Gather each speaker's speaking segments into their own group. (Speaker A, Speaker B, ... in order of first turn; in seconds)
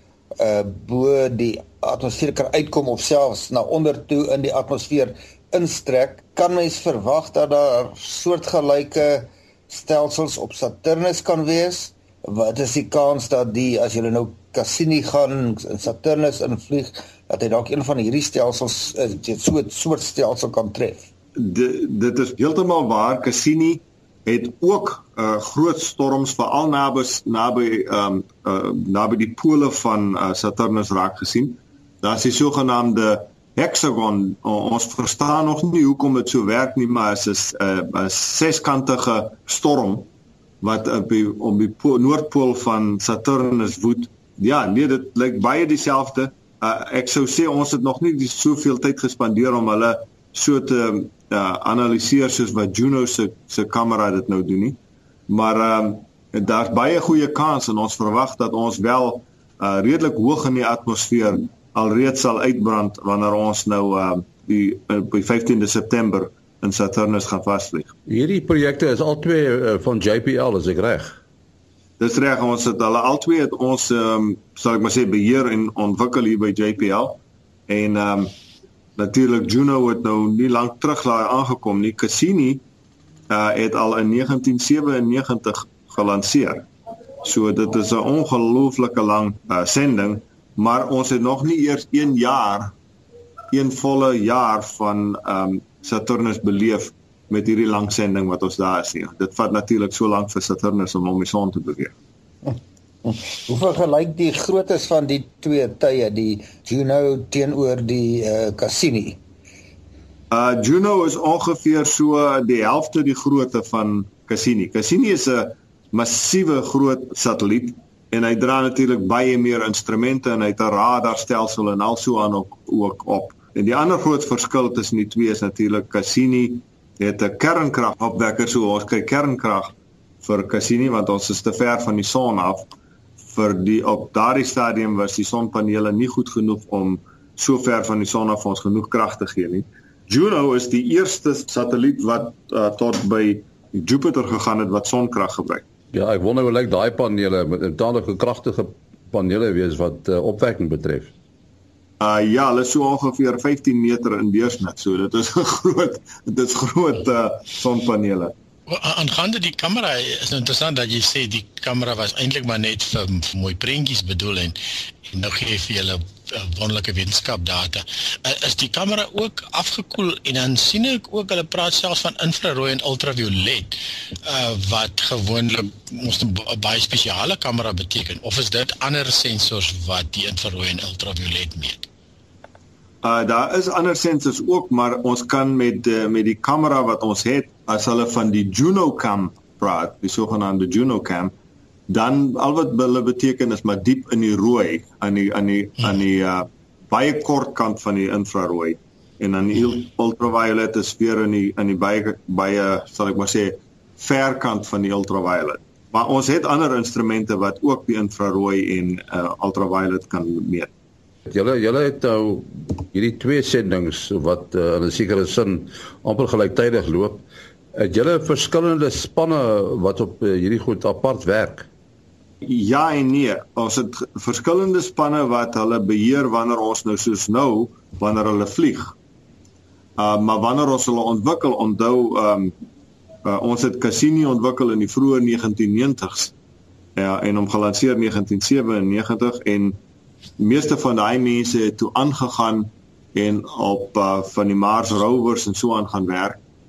Speaker A: 0.4-21.1, 102.5-109.2
Speaker B: 21.4-40.1, 40.6-54.8, 55.3-67.9, 72.0-78.3, 79.0-82.6, 83.3-86.7, 87.2-92.7, 93.5-101.9, 110.3-132.7, 133.3-145.6, 152.0-158.3, 183.0-191.3, 191.9-210.7, 222.4-228.9, 230.0-232.5, 233.2-236.3, 237.0-239.8, 240.4-246.4
Speaker C: 68.1-71.2, 145.9-151.1, 211.3-221.7
Speaker D: 158.7-181.8